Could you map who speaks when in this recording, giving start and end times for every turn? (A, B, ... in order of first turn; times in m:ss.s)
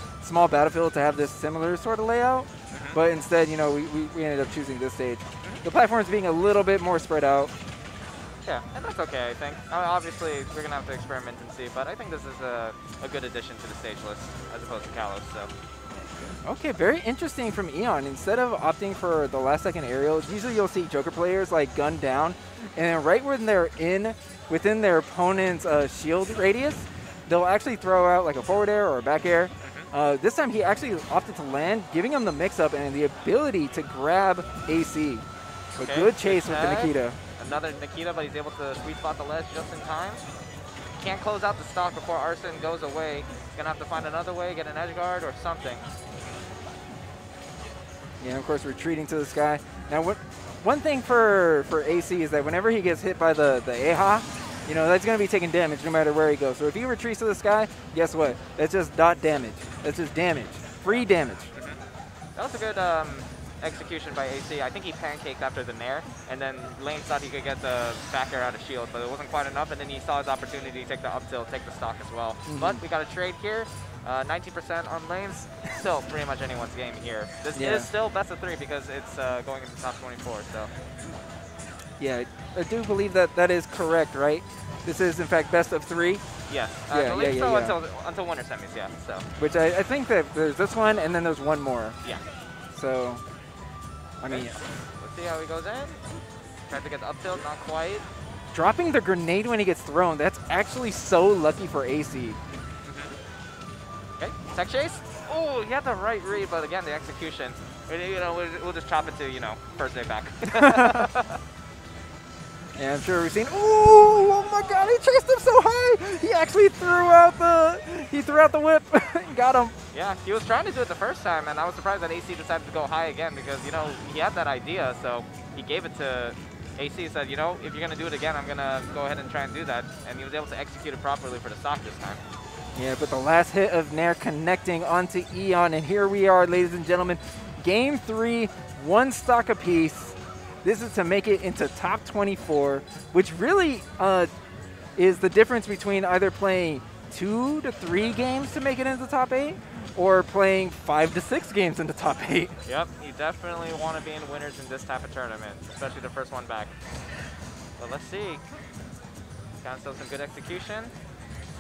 0:00.2-0:07.5 A
0:02.7-0:03.0 B
0:08.4-0:15.5 B
0:16.4-0:37.2 A
0:29.6-0:29.9 B
0:35.8-0:40.2 B
0:41.0-0:45.8 B
0:48.2-1:01.5 A
1:00.9-1:01.8 B
1:02.4-1:20.7 B
1:12.4-1:12.8 A
1:17.5-1:17.9 A
1:22.0-1:26.2 A
1:26.5-1:29.2 B
1:26.9-1:27.8 A
1:29.4-1:32.0 A
1:32.7-1:33.2 A
1:34.2-1:34.6 A
1:34.3-1:36.0 B
1:36.7-1:38.0 B
1:38.5-1:42.4 A
1:42.8-1:43.1 B
1:44.2-1:51.4 B
1:50.5-1:51.1 A
1:52.8-1:59.7 A
1:59.9-2:12.2 B
2:12.7-2:24.3 A
2:25.0-2:32.6 A
2:32.6-2:36.7 B
2:37.8-2:38.4 B
2:39.6-2:40.9 B